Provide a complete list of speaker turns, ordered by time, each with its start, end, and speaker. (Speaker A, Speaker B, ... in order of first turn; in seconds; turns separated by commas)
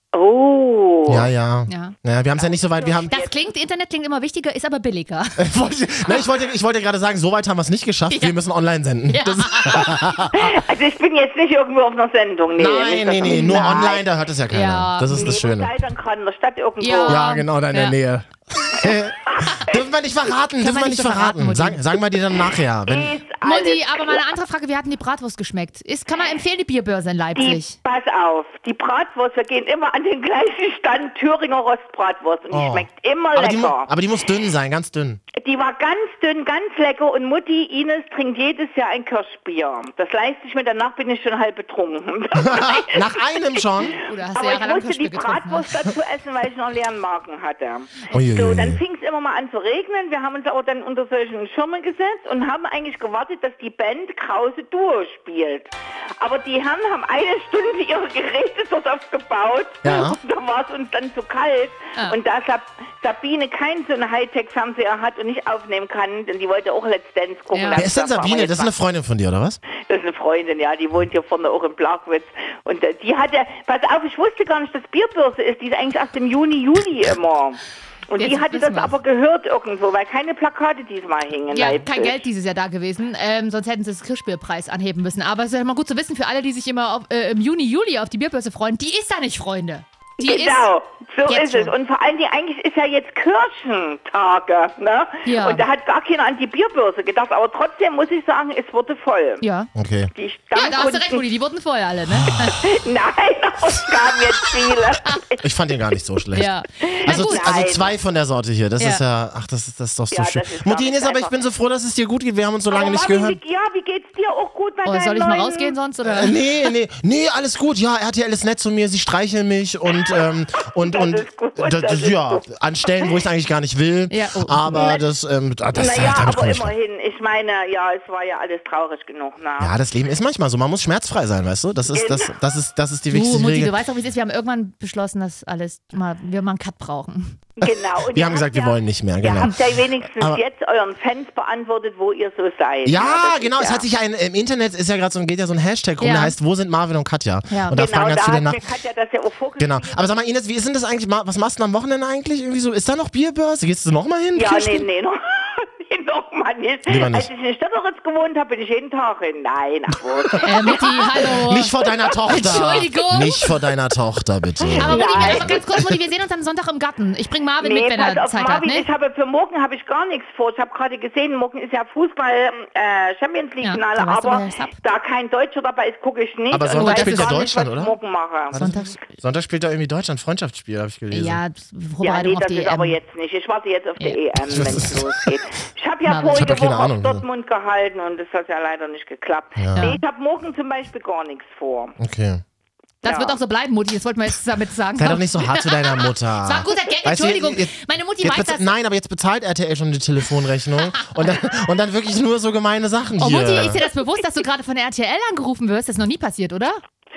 Speaker A: 0.1-1.3, Speaker B: 1.1-3.1, Speaker C: 1.7-1.9, Speaker A: 2.3-3.3, Speaker C: 3.1-5.5, Speaker B: 5.4-10.6, Speaker C: 8.1-8.4, Speaker C: 9.1-10.1, Speaker A: 10.3-14.0, Speaker B: 12.6-15.7, Speaker C: 13.2-13.9, Speaker C: 14.5-15.2, Speaker A: 15.1-17.2, Speaker C: 16.8-18.0, Speaker B: 17.1-23.2, Speaker A: 19.3-19.7, Speaker C: 20.6-22.0, Speaker A: 22.9-24.2, Speaker C: 23.4-27.7, Speaker A: 27.4-33.9, Speaker B: 32.5-35.2, Speaker A: 35.4-68.7, Speaker B: 42.4-44.0, Speaker C: 44.0-45.7, Speaker B: 48.1-48.8, Speaker B: 59.8-60.2, Speaker C: 67.5-67.8, Speaker B: 67.7-69.6, Speaker A: 69.7-82.2, Speaker C: 78.2-78.9, Speaker C: 81.5-90.7, Speaker A: 90.2-99.4, Speaker C: 91.3-91.7, Speaker C: 95.2-95.6, Speaker C: 99.4-99.7, Speaker B: 99.7-100.1, Speaker A: 100.1-101.2, Speaker C: 100.5-102.6, Speaker B: 102.2-102.5, Speaker A: 102.5-105.5, Speaker B: 105.4-106.5, Speaker C: 106.3-107.5, Speaker A: 106.8-107.9, Speaker B: 107.0-113.4, Speaker A: 110.1-111.4, Speaker A: 112.7-115.7, Speaker C: 114.8-116.4, Speaker B: 116.0-126.7, Speaker A: 119.9-123.2, Speaker C: 124.1-124.8, Speaker A: 124.7-125.0, Speaker A: 125.7-129.7, Speaker B: 129.6-133.7, Speaker A: 131.9-132.3, Speaker C: 133.1-137.4, Speaker A: 137.6-143.8, Speaker B: 137.6-139.6, Speaker B: 142.8-148.6, Speaker C: 146.0-146.3, Speaker C: 147.5-147.8, Speaker A: 147.7-150.1, Speaker B: 149.6-154.8, Speaker A: 154.3-161.0, Speaker B: 156.9-157.3, Speaker B: 160.3-165.9, Speaker C: 160.4-161.8, Speaker A: 161.8-162.6, Speaker C: 162.3-163.4, Speaker A: 164.6-165.8, Speaker C: 164.8-168.9, Speaker A: 167.6-178.6, Speaker C: 173.6-174.8, Speaker B: 176.5-177.9, Speaker C: 176.7-177.4, Speaker B: 178.5-181.4, Speaker C: 178.5-179.0, Speaker C: 181.1-183.0, Speaker A: 182.0-192.0, Speaker B: 184.4-185.3, Speaker C: 186.1-186.5, Speaker B: 186.3-187.2, Speaker B: 189.6-189.9, Speaker B: 192.0-192.4, Speaker C: 193.0-198.7, Speaker A: 193.0-193.4, Speaker B: 195.0-203.8, Speaker C: 200.9-201.2, Speaker C: 203.2-206.8